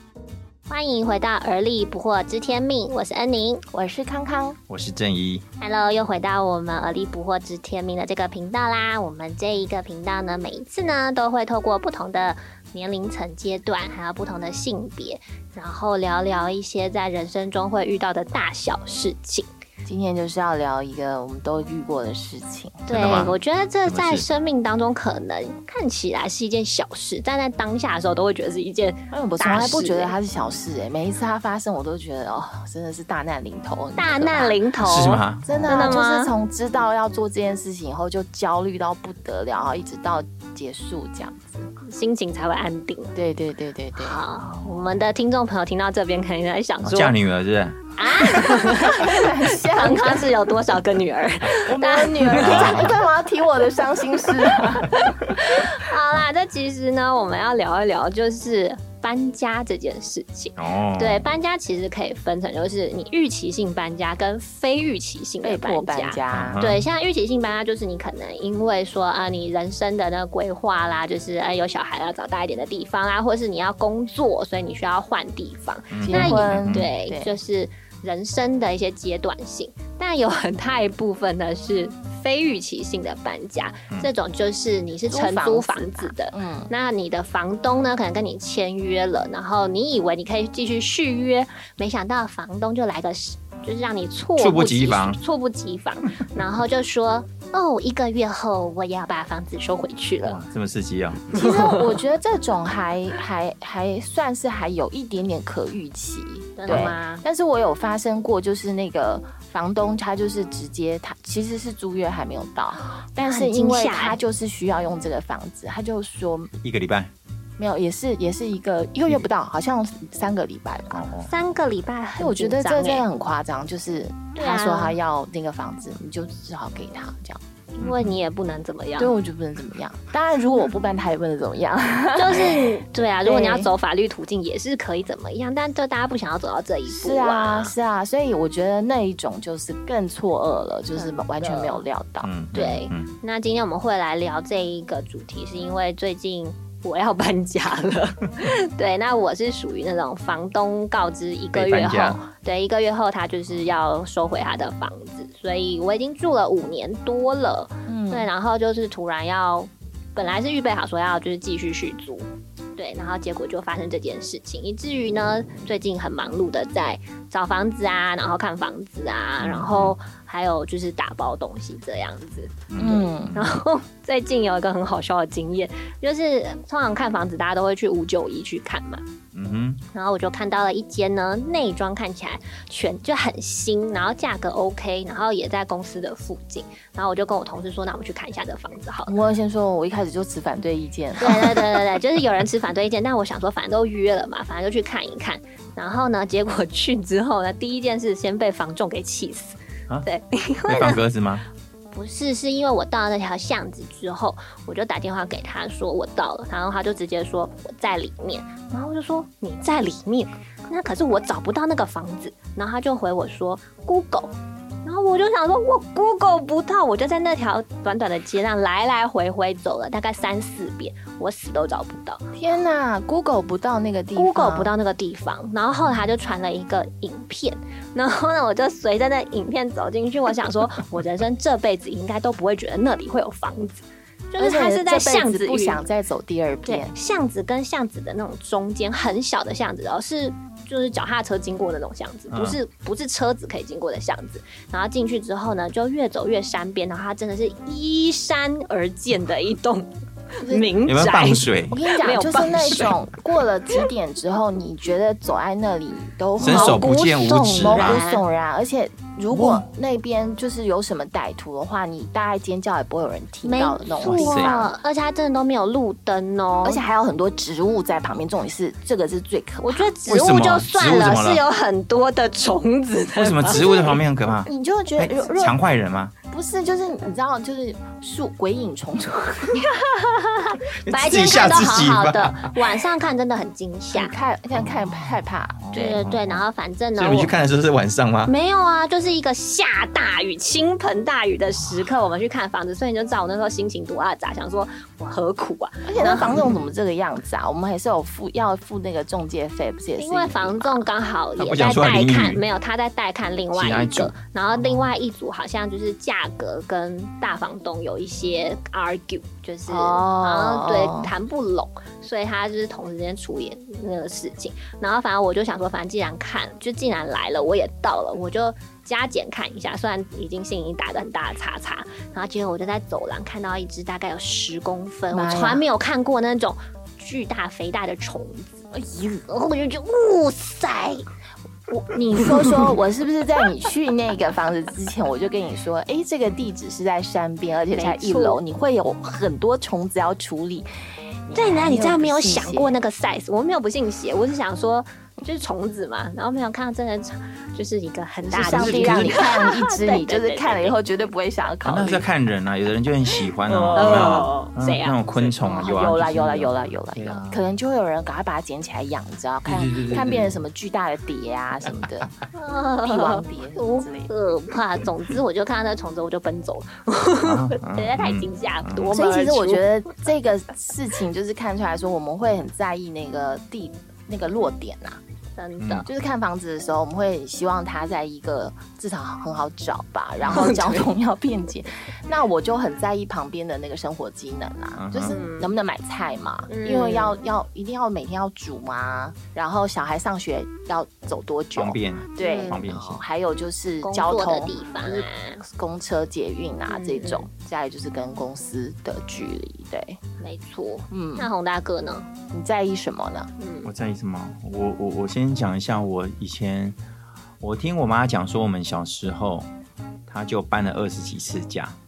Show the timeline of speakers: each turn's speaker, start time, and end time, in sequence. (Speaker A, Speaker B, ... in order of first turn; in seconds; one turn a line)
Speaker A: 0.7-3.6
Speaker B: 3.7-4.6
Speaker C: 4.7-5.4
Speaker A: 5.6-19.5
Speaker B: 19.9-22.9
Speaker A: 22.9-30.1
Speaker C: 22.9-24.2
Speaker B: 29.1-41.7
Speaker A: 34.0-36.3
Speaker C: 34.8-36.0
Speaker A: 41.8-43.1
Speaker B: 43.1-44.2
Speaker A: 44.0-47.1
Speaker C: 46.8-47.8
Speaker A: 48.0-52.8
Speaker B: 48.3-50.3
Speaker B: 51.6-55.3
Speaker C: 52.3-53.0
Speaker A: 55.0-100.4
Speaker C: 60.5-61.3
Speaker B: 65.4-66.6
Speaker C: 66.3-66.8
Speaker C: 75.9-76.9
Speaker B: 76.1-77.4
Speaker B: 85.1-86.7
Speaker C: 94.4-95.2
Speaker C: 100.2-101.5
Speaker B: 101.3-116.5
Speaker A: 101.3-101.8
Speaker A: 106.6-107.2
Speaker C: 106.7-106.9
Speaker A: 113.2-114.2
Speaker C: 116.6-117.1
Speaker B: 117.6-121.1
Speaker C: 120.9-121.3
Speaker A: 121.3-123.0
Speaker B: 122.2-127.4
Speaker A: 124.3-125.0
Speaker A: 127.8-129.1
Speaker C: 127.8-128.2
Speaker B: 129.0-133.7
Speaker A: 132.1-137.7
Speaker B: 136.9-142.3
Speaker A: 140.9-141.8
Speaker C: 142.2-143.1
Speaker A: 142.5-179.0
Speaker C: 151.5-152.2
Speaker B: 157.9-158.3
Speaker C: 169.4-169.9
Speaker C: 172.7-173.6
Speaker B: 172.8-173.3
Speaker C: 179.3-179.8
Speaker A: 179.9-189.1
Speaker B: 189.1-191.8
Speaker A: 191.2-201.0
Speaker C: 200.7-201.4
Speaker A: 201.9-222.3
Speaker B: 222.3-224.7
Speaker A: 224.1-235.8
Speaker B: 234.4-236.9
Speaker A: 236.7-253.0
Speaker C: 242.3-242.6
Speaker B: 250.4-250.7
Speaker C: 250.9-251.8
Speaker B: 251.7-264.7
Speaker C: 256.4-258.0
Speaker A: 256.4-258.2
Speaker C: 259.3-259.6
Speaker A: 263.4-266.8
Speaker C: 264.0-264.5
Speaker B: 266.6-269.9
Speaker A: 269.6-273.9
Speaker C: 270.1-271.4
Speaker C: 273.1-276.1
Speaker B: 273.6-273.9
Speaker B: 274.4-275.6
Speaker B: 276.3-279.7
Speaker A: 279.6-284.1
Speaker C: 280.8-282.6
Speaker B: 283.9-286.0
Speaker C: 284.5-286.4
Speaker A: 285.7-287.3
Speaker C: 286.9-288.3
Speaker A: 288.2-296.5
Speaker B: 295.8-300.9
Speaker A: 300.0-331.0
Speaker C: 301.4-302.4
Speaker C: 303.5-304.9
Speaker B: 309.7-311.1
Speaker B: 325.1-325.6
Speaker B: 328.7-329.2
Speaker B: 331.7-340.7
Speaker A: 331.9-332.5
Speaker A: 337.7-338.4
Speaker B: 341.2-342.7
Speaker A: 341.3-350.8
Speaker B: 348.3-352.1
Speaker C: 348.3-349.2
Speaker C: 351.6-357.4
Speaker B: 353.5-354.2
Speaker A: 353.7-355.0
Speaker B: 355.1-362.2
Speaker C: 359.4-360.4
Speaker A: 362.3-369.7
Speaker B: 362.8-364.1
Speaker C: 367.2-368.9
Speaker B: 368.9-375.0
Speaker A: 375.4-375.9
Speaker C: 375.6-375.9
Speaker B: 375.9-400.0
Speaker C: 380.2-380.5
Speaker A: 380.3-380.9
Speaker C: 384.7-385.2
Speaker A: 385.1-385.5
Speaker A: 386.5-387.1
Speaker C: 391.6-393.0
Speaker A: 392.2-392.6
Speaker A: 393.8-395.4
Speaker A: 396.7-397.3
Speaker A: 400.2-402.1
Speaker B: 400.9-401.3
Speaker B: 402.3-403.3
Speaker A: 403.4-403.7
Speaker C: 403.6-406.8
Speaker C: 407.4-409.5
Speaker C: 410.1-411.8